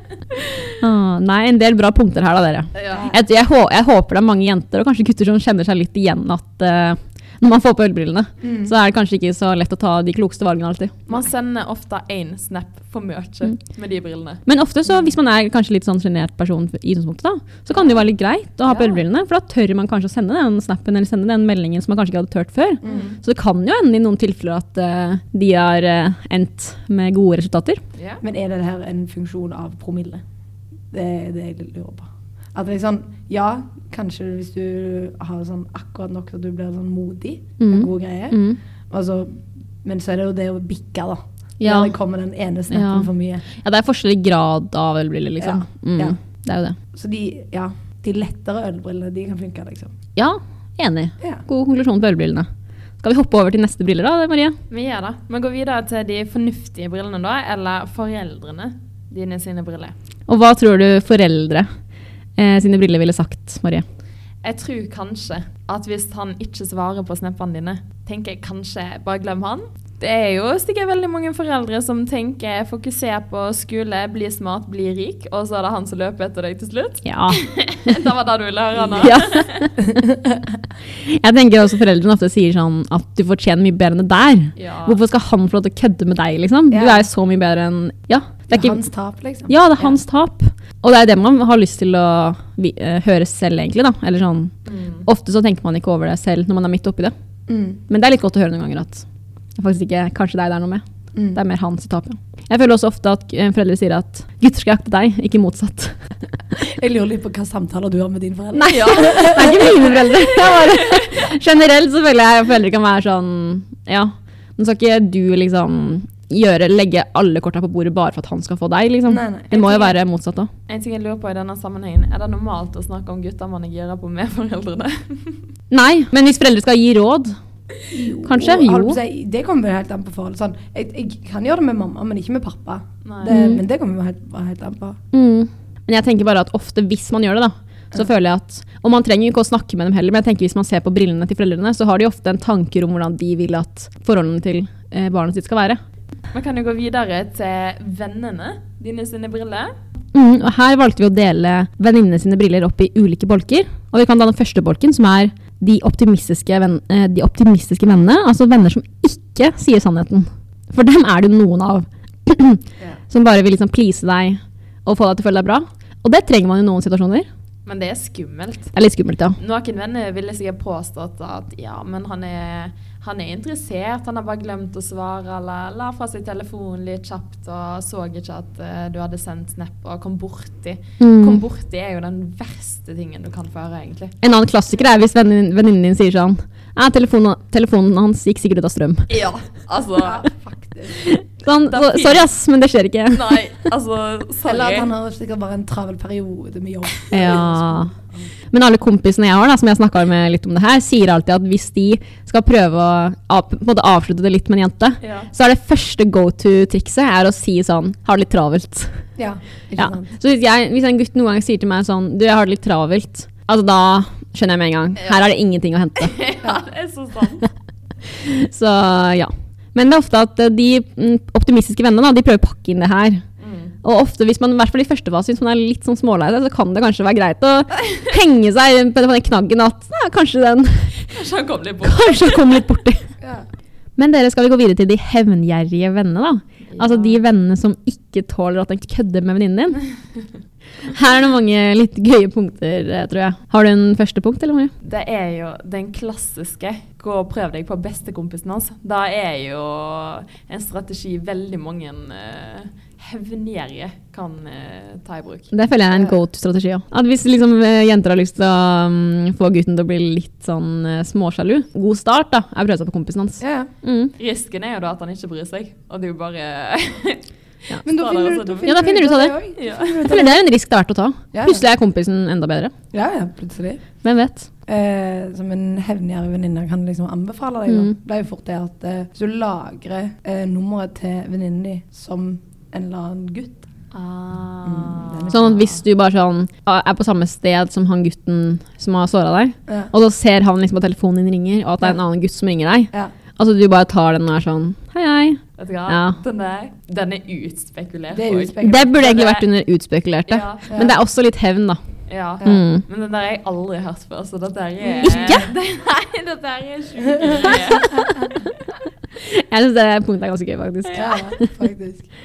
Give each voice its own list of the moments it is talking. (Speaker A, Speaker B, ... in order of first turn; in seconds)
Speaker A: 0.8-11.1, 14.4-27.8, 37.6-38.6, 41.6-41.9, 42.7-46.8, 50.1-52.5, 53.0-54.6, 60.3-61.7, 62.3-63.8, 77.0-77.5, 79.0-79.7, 81.0-88.8, 89.5-97.1, 97.9-106.2, 108.5-120.5, 125.7-127.4, 128.2-129.0, 133.2-133.6, 135.1-145.8, 150.1-167.3, 168.7-169.4, 181.0-181.4, 184.2-189.1, 191.0-193.4, 197.1-197.9, 198.5-209.1, 209.8-216.2, 218.1-223.2, 223.8-231.1, 231.8-233.1, 234.0-239.9, 240.8-244.7, 255.5-264.1, 268.6-272.7, 274.0-274.5, 277.7-277.9, 285.3-296.2, 298.6-302.8, 305.0-305.5, 309.2-311.5
Speaker B: 2.7-3.1, 11.1-14.4, 17.7-18.0, 28.0-28.2, 54.7-59.9, 64.4-79.7, 84.6-85.0, 94.7-95.0, 108.7-111.0, 120.7-125.5, 133.0-133.4, 146.3-149.7, 167.7-168.7, 169.4-184.2, 189.1-190.2, 191.7-192.3, 193.1-194.9, 205.0-205.3, 216.0-217.4, 223.4-223.7, 231.1-232.4, 236.7-237.2, 244.8-255.5, 264.2-268.8, 269.6-270.0, 283.9-285.8, 295.6-299.4, 300.3-300.7, 302.1-308.4
Speaker C: 2.9-3.2, 8.4-8.7, 18.7-19.0, 22.8-23.2, 28.2-30.2, 30.9-43.4, 45.4-46.2, 46.9-49.9, 78.8-79.1, 86.7-87.1, 88.5-90.0, 97.5-97.8, 101.1-101.4, 106.6-109.9, 119.1-120.0, 127.9-135.0, 190.0-191.0, 194.4-198.2, 209.2-210.1, 233.2-233.4, 255.9-256.2, 263.4-263.7, 267.8-270.4, 271.3-271.7, 272.9-274.0, 274.6-283.6, 284.6-285.6, 289.7-289.9, 298.1-299.1, 300.7-301.0, 304.8-305.4, 307.2-308.3, 310.9-312.1